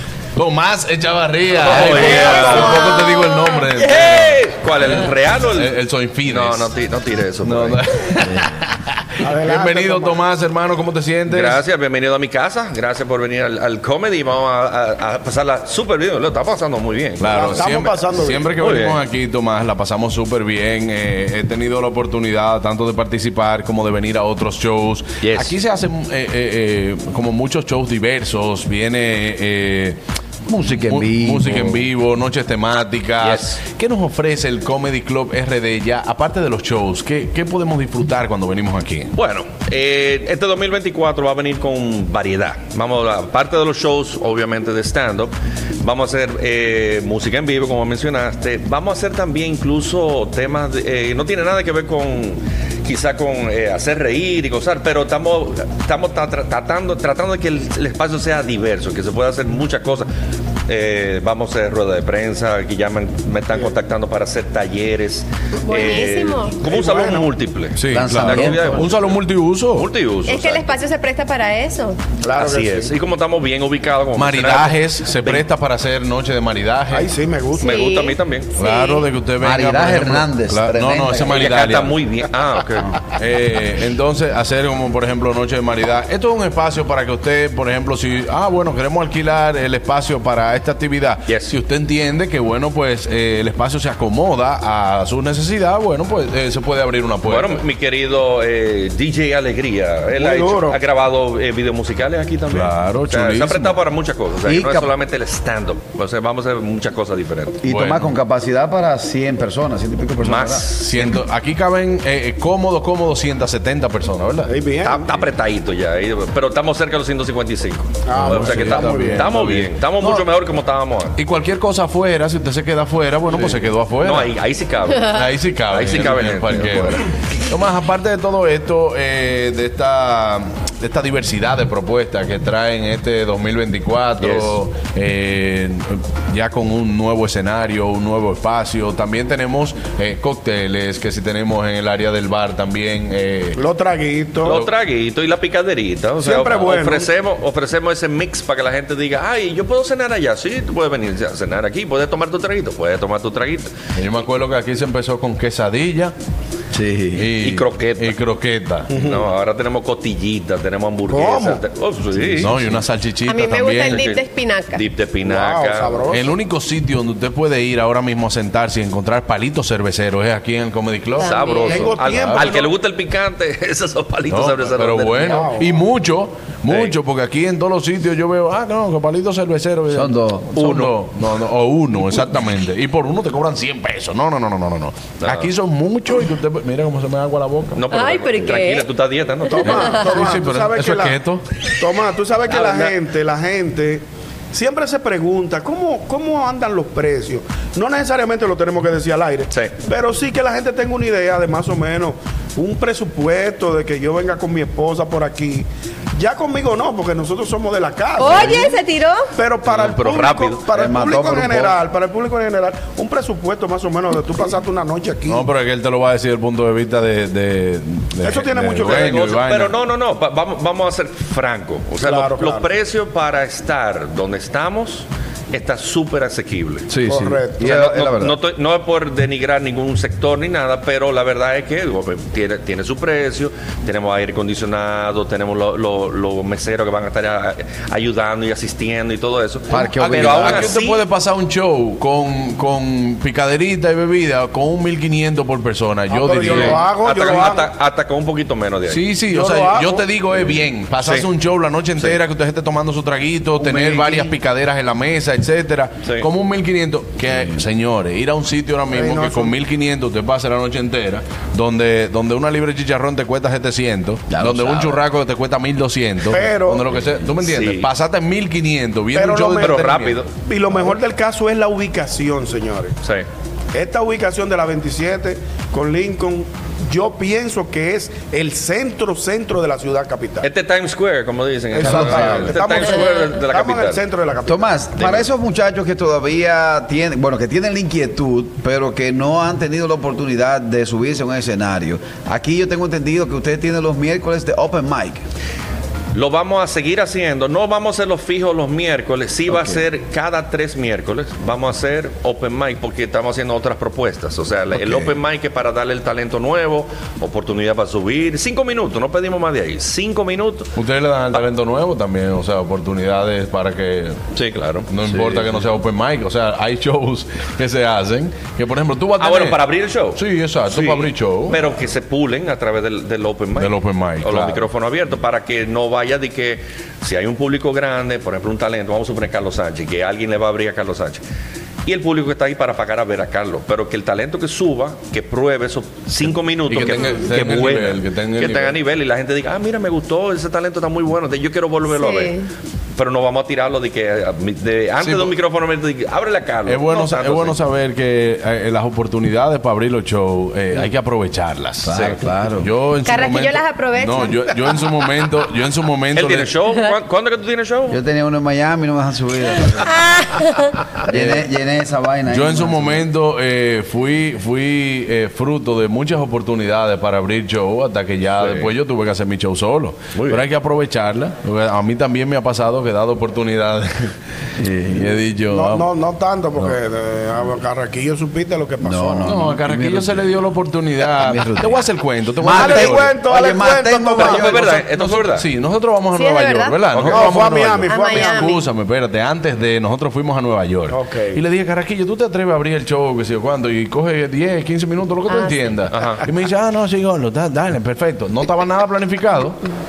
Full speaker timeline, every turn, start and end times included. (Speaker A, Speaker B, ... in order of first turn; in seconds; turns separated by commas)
Speaker A: 0.4-5.0, Speaker B: 1.6-2.8, Speaker C: 2.0-2.6, Speaker D: 2.6-3.6, Speaker B: 3.7-5.7, Speaker A: 5.5-6.7, Speaker B: 6.2-7.8, Speaker A: 7.4-11.6, Speaker C: 9.2-10.2, Speaker B: 11.3-17.6, Speaker A: 17.2-30.0, Speaker C: 17.3-18.5, Speaker B: 18.5-19.0, Speaker B: 25.2-25.6, Speaker E: 30.5-31.8, Speaker A: 30.8-39.1, Speaker B: 33.2-33.6, Speaker B: 39.1-60.1, Speaker B: 60.7-70.8, Speaker D: 65.6-66.6, Speaker C: 66.7-67.3, Speaker A: 67.8-69.9, Speaker E: 67.9-68.9, Speaker D: 70.3-72.1, Speaker C: 72.2-73.0, Speaker B: 72.3-75.5, Speaker A: 74.2-77.1, Speaker C: 76.9-77.7, Speaker D: 77.5-79.1, Speaker B: 77.6-78.6, Speaker A: 78.6-82.0, Speaker E: 79.4-81.5, Speaker B: 81.3-82.9, Speaker A: 83.2-97.6, Speaker B: 91.3-91.5, Speaker B: 97.3-107.6, Speaker C: 100.2-100.8, Speaker A: 102.5-103.8, Speaker E: 104.5-104.9, Speaker E: 107.6-110.7, Speaker A: 107.7-108.1, Speaker B: 110.2-111.2, Speaker A: 110.8-114.5, Speaker C: 114.5-115.3, Speaker B: 114.8-121.2, Speaker C: 118.1-119.4, Speaker A: 118.1-119.7, Speaker A: 121.2-124.3, Speaker B: 124.0-127.1, Speaker A: 125.1-143.6, Speaker B: 134.2-134.6, Speaker C: 143.6-144.6, Speaker B: 144.4-153.7, Speaker C: 146.2-147.1, Speaker A: 154.0-156.2, Speaker E: 156.7-157.3, Speaker A: 157.1-158.9, Speaker B: 157.4-158.2, Speaker C: 158.9-159.3, Speaker B: 158.9-162.8, Speaker C: 161.1-161.6, Speaker A: 162.1-164.1, Speaker D: 163.2-164.9, Speaker B: 163.8-166.1, Speaker C: 165.2-166.3, Speaker A: 166.1-172.5, Speaker D: 171.2-171.9, Speaker B: 171.2-175.5, Speaker C: 171.6-172.8, Speaker A: 174.3-187.9, Speaker C: 175.2-175.7, Speaker B: 176.7-177.0, Speaker E: 179.9-180.5, Speaker B: 180.6-181.0, Speaker B: 185.2-185.5, Speaker B: 187.8-189.9, Speaker D: 187.9-188.9, Speaker C: 189.6-191.2, Speaker D: 189.6-190.3, Speaker A: 189.6-191.4, Speaker C: 191.8-208.8, Speaker B: 192.5-192.9, Speaker B: 199.5-199.7, Speaker D: 208.2-209.3, Speaker C: 209.4-215.5, Speaker B: 209.6-210.7, Speaker E: 210.7-211.8, Speaker A: 215.3-219.8, Speaker C: 218.2-219.1, Speaker B: 218.8-226.9, Speaker C: 222.0-222.7, Speaker E: 227.1-228.4, Speaker C: 227.1-227.7, Speaker B: 227.6-241.0, Speaker E: 239.7-240.7, Speaker A: 240.1-246.9, Speaker C: 246.1-247.7, Speaker B: 246.9-249.1, Speaker A: 248.9-270.2, Speaker C: 249.2-250.1, Speaker B: 251.0-251.3, Speaker C: 253.7-254.3, Speaker B: 256.0-256.3, Speaker C: 258.9-259.6, Speaker E: 264.3-265.0, Speaker C: 266.3-266.9, Speaker B: 267.4-267.9, Speaker C: 269.1-272.9, Speaker B: 269.6-270.3, Speaker B: 273.0-273.3, Speaker C: 273.7-280.5, Speaker B: 280.4-284.1, Speaker C: 281.7-284.7, Speaker E: 281.8-282.6, Speaker E: 284.5-295.2, Speaker B: 285.0-285.3, Speaker B: 296.1-310.7, Speaker E: 299.5-299.8, Speaker E: 304.7-305.2, Speaker A: 310.8-314.2, Speaker B: 314.4-315.7, Speaker A: 314.9-321.6, Speaker B: 319.2-331.2, Speaker A: 323.6-324.7, Speaker B: 331.9-342.4, Speaker A: 336.7-338.8, Speaker D: 341.9-342.5, Speaker B: 343.0-347.6, Speaker A: 345.0-345.3, Speaker A: 346.7-351.9, Speaker E: 351.9-352.7, Speaker B: 351.9-352.2, Speaker A: 352.6-356.5, Speaker D: 353.0-354.8, Speaker B: 356.1-358.0, Speaker E: 357.9-360.1, Speaker D: 359.9-360.8, Speaker E: 361.0-363.1, Speaker A: 361.1-361.4, Speaker A: 362.3-374.1, Speaker B: 368.4-368.7, Speaker B: 370.1-370.4, Speaker E: 374.6-375.1, Speaker A: 374.9-375.9, Speaker C: 375.5-379.3, Speaker E: 378.8-380.3, Speaker A: 379.2-383.1, Speaker E: 381.1-381.8, Speaker E: 382.4-384.9, Speaker C: 382.5-384.7, Speaker B: 384.1-385.5, Speaker A: 385.0-399.6, Speaker D: 386.1-387.2, Speaker B: 386.9-387.2, Speaker C: 387.1-388.5, Speaker D: 387.8-388.7, Speaker C: 390.9-391.4, Speaker D: 395.3-395.8, Speaker B: 395.9-396.2